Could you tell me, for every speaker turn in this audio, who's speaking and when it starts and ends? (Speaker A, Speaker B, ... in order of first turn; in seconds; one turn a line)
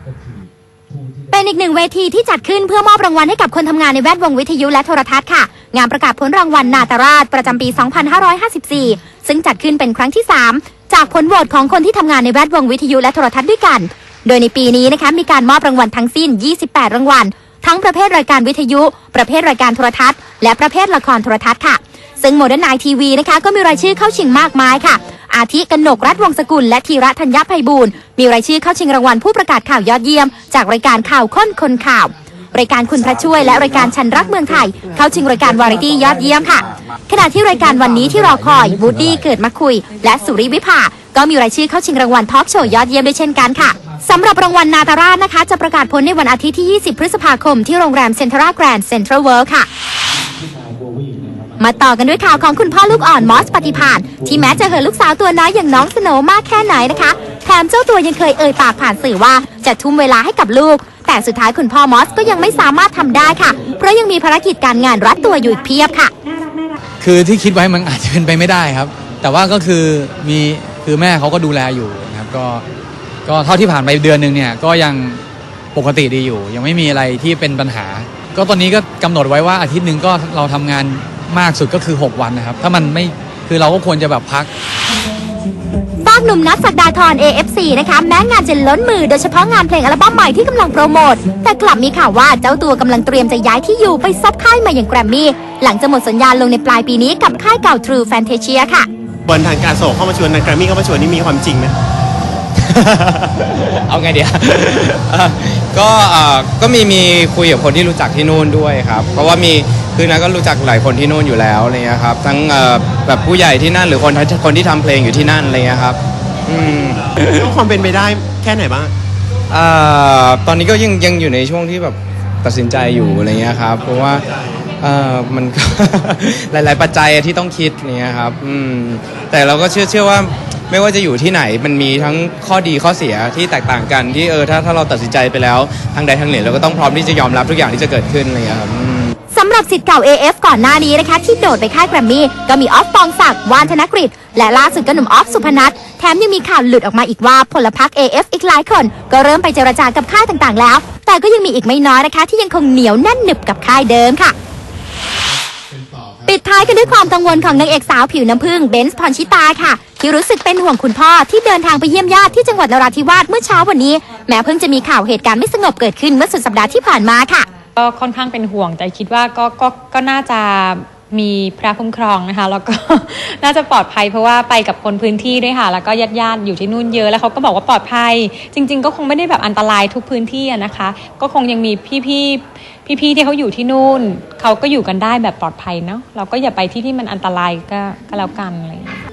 Speaker A: 1.3-49.7
Speaker A: 51.6-66.1
Speaker B: 67.0-72.6
Speaker B: 73.2-75.2
Speaker B: 75.7-84.5
Speaker A: 86.0-98.9
Speaker C: 99.3-101.7
Speaker C: 102.8-103.4
Speaker D: 103.5-117.5
Speaker C: 117.2-118.9
Speaker D: 119.5-124.2
Speaker D: 124.8-139.1
Speaker A: 139.3-154.3
Speaker A: 156.3-167.5
Speaker E: 167.8-189.0